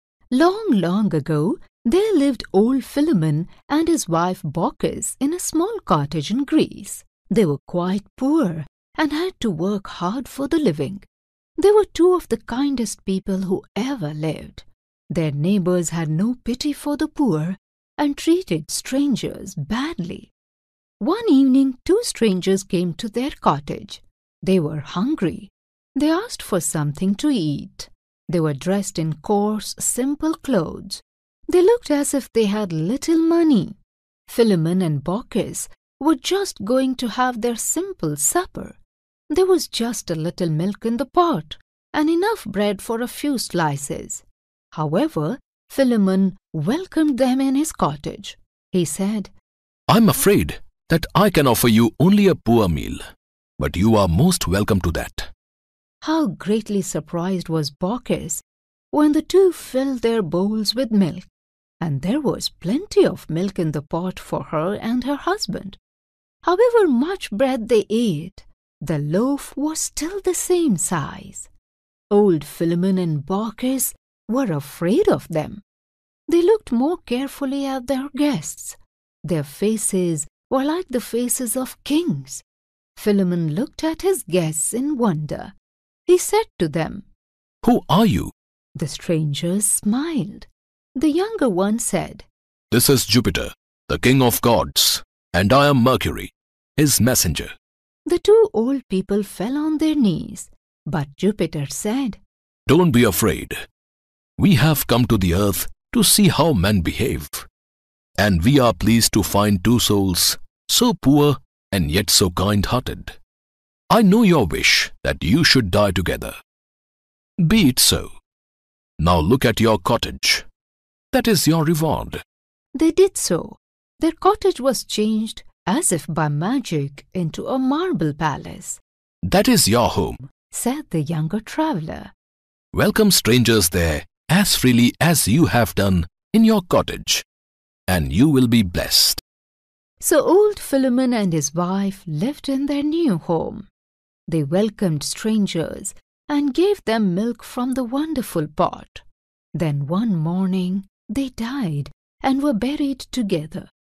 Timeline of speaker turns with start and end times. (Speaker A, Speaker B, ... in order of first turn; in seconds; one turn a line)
Speaker A: 0.3-20.3
Speaker A: 21.0-33.8
Speaker A: 34.3-38.8
Speaker A: 39.3-49.3
Speaker B: 49.9-53.0
Speaker B: 53.6-55.3
Speaker A: 56.0-61.3
Speaker A: 61.8-65.8
Speaker A: 66.4-71.5
Speaker A: 72.1-75.6
Speaker A: 76.3-82.4
Speaker A: 83.0-85.5
Speaker A: 86.1-87.1
Speaker B: 87.6-88.3
Speaker A: 88.8-92.3
Speaker B: 92.7-97.5
Speaker A: 98.1-102.2
Speaker B: 102.7-103.6
Speaker B: 104.4-107.5
Speaker B: 108.2-113.2
Speaker B: 113.9-116.4
Speaker B: 117.4-118.1
Speaker B: 119.0-120.5
Speaker B: 121.1-122.2
Speaker A: 122.8-128.8
Speaker B: 129.2-130.3
Speaker A: 130.5-132.1
Speaker B: 132.7-137.2
Speaker B: 137.9-139.2
Speaker A: 140.0-143.7
Speaker A: 144.3-149.0
Speaker A: 149.6-153.7